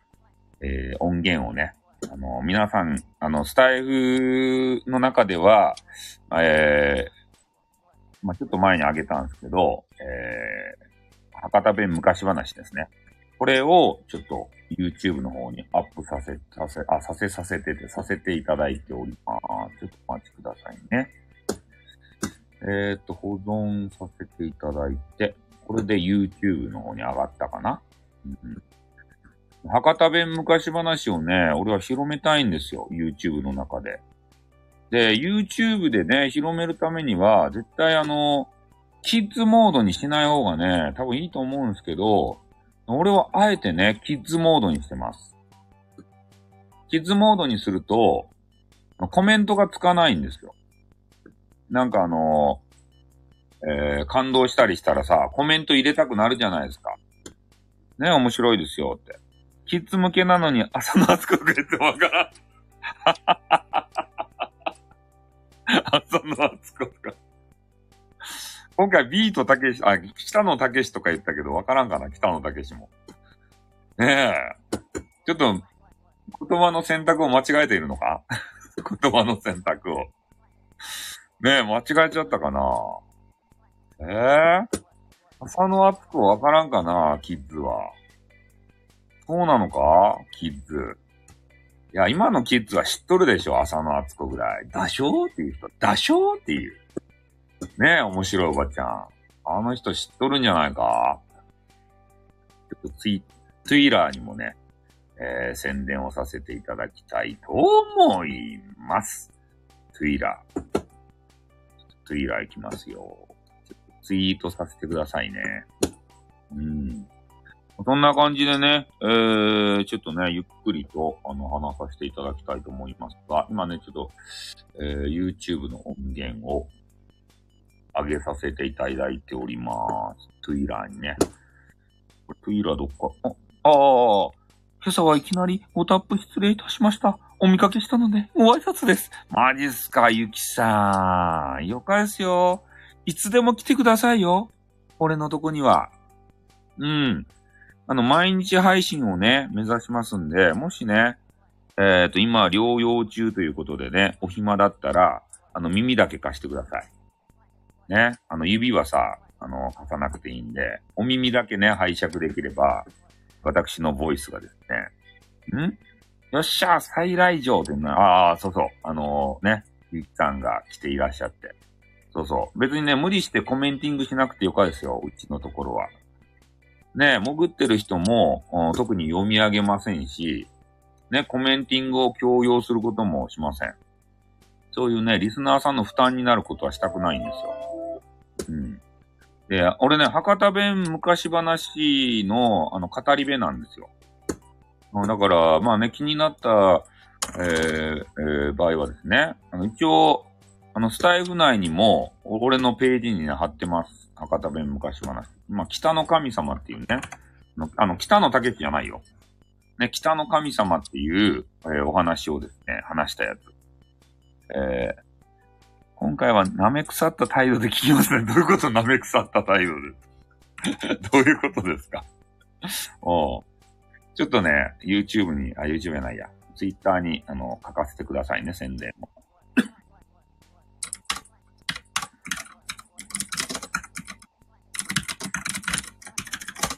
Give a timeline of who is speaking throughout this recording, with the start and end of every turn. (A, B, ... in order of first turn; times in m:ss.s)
0:00.6-0:07.1 A
0:08.2-0:10.8 A
0:11.4-0:21.1 A
0:22.6-0:28.6 A
0:29.6-0:34.0 A
0:34.9-0:38.5 A
0:39.0-0:45.2 A
0:46.9-0:48.3 A
0:49.0-0:50.5 A
0:51.7-0:52.6 A
0:53.6-0:57.0 A
0:58.0-0:59.2 A
0:59.7-1:02.3 A
1:03.0-1:04.0 A
1:05.7-1:07.1 A
1:08.3-1:12.9 A
1:14.0-1:14.6 A
1:15.2-1:15.6 A
1:16.3-1:18.2 A
1:18.8-1:20.1 A
1:21.4-1:23.0 A
1:24.0-1:24.7 A
1:25.4-1:27.9 A
1:29.2-1:31.0 A
1:31.9-1:36.8 A
1:37.8-1:41.2 A
1:42.8-1:44.6 A
1:45.2-1:49.3 A
1:49.9-1:50.4 A
1:52.0-1:53.2 A
1:54.0-1:55.7 A
1:56.5-1:57.1 A
1:57.8-2:04.2 A
2:04.7-2:06.7 A
2:07.9-2:11.2 A
2:12.3-2:25.9 A
2:26.8-2:27.3 A
2:27.9-2:31.2 A
2:31.8-2:36.9 A
2:37.9-2:42.8 A
2:43.4-2:44.9 A
2:45.5-2:45.8 A
2:46.3-2:51.5 A
2:52.1-2:55.9 A
2:56.9-3:00.5 A
3:01.1-3:03.7 A
3:04.7-3:07.5 A
3:08.5-3:08.8 A
3:09.5-3:13.9 A
3:14.9-3:27.0 A
3:27.6-3:29.0 A
3:29.8-3:33.4 A
3:34.5-3:35.0 A
3:36.0-3:40.0 A
3:40.7-3:42.0 A
3:42.6-3:43.4 A
3:44.1-3:49.0 A